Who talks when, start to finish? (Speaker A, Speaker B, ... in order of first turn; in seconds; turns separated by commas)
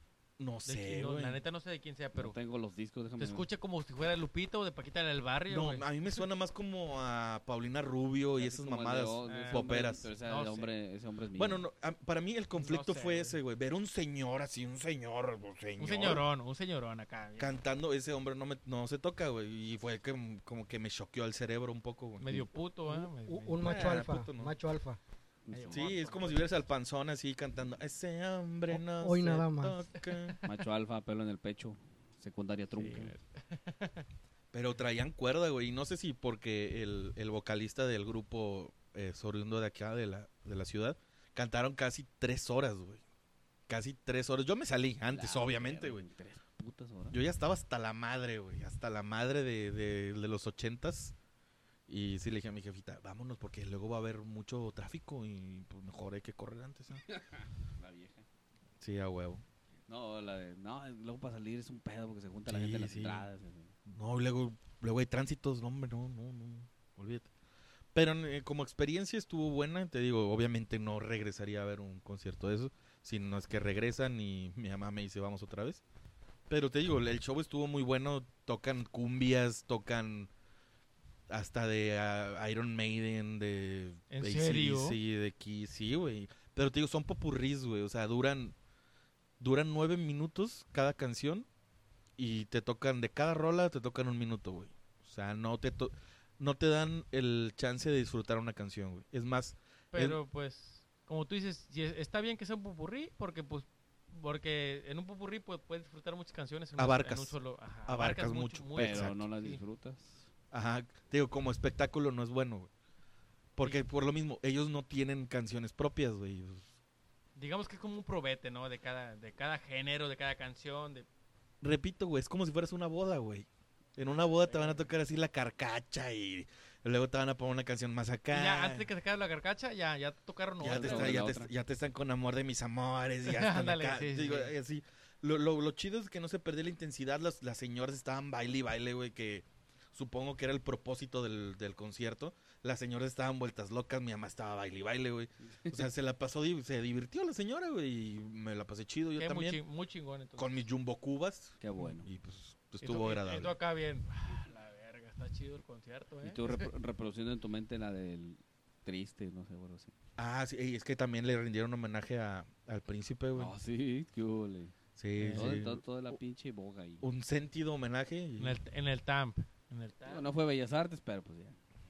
Speaker A: 0.4-1.4, Speaker B: 0.7-2.4, Speaker C: 2.1-3.5, Speaker B: 3.2-5.9, Speaker A: 5.5-10.1, Speaker C: 8.4-11.6, Speaker B: 9.3-10.7, Speaker A: 11.4-16.3, Speaker B: 12.6-13.4, Speaker B: 15.8-17.6, Speaker A: 17.4-22.4, Speaker B: 22.2-24.1, Speaker D: 22.9-25.0, Speaker A: 23.6-24.6, Speaker C: 25.5-25.9, Speaker B: 25.5-26.5, Speaker A: 25.7-30.4, Speaker D: 28.7-29.9, Speaker B: 30.0-30.6, Speaker C: 30.4-33.1, Speaker B: 32.8-34.0, Speaker A: 34.5-43.0, Speaker A: 43.7-46.0, Speaker C: 45.1-47.2, Speaker A: 47.1-51.1, Speaker A: 51.9-57.0, Speaker C: 57.1-58.3, Speaker A: 58.8-59.4, Speaker C: 59.9-63.8, Speaker A: 62.5-63.3, Speaker A: 63.9-67.3, Speaker A: 67.9-75.8, Speaker A: 76.5-80.3, Speaker A: 81.3-88.5, Speaker B: 84.1-85.0, Speaker A: 89.4-91.5, Speaker A: 92.2-100.2, Speaker B: 99.9-109.6, Speaker A: 106.8-109.2, Speaker C: 108.8-110.3, Speaker A: 110.5-112.7, Speaker A: 113.6-116.7, Speaker B: 117.4-121.1, Speaker A: 121.6-128.9, Speaker B: 124.0-124.9, Speaker B: 128.3-131.3, Speaker A: 130.6-149.6, Speaker C: 130.6-131.5, Speaker B: 133.3-134.5, Speaker C: 145.5-145.8, Speaker B: 149.2-150.7, Speaker A: 150.4-153.6, Speaker C: 151.6-152.1, Speaker B: 152.8-156.7, Speaker C: 156.2-159.9, Speaker A: 160.2-163.5, Speaker C: 163.3-164.8, Speaker A: 165.0-166.2, Speaker B: 165.2-165.6, Speaker C: 165.3-167.1, Speaker A: 167.0-168.6, Speaker B: 168.4-170.3, Speaker C: 170.1-171.6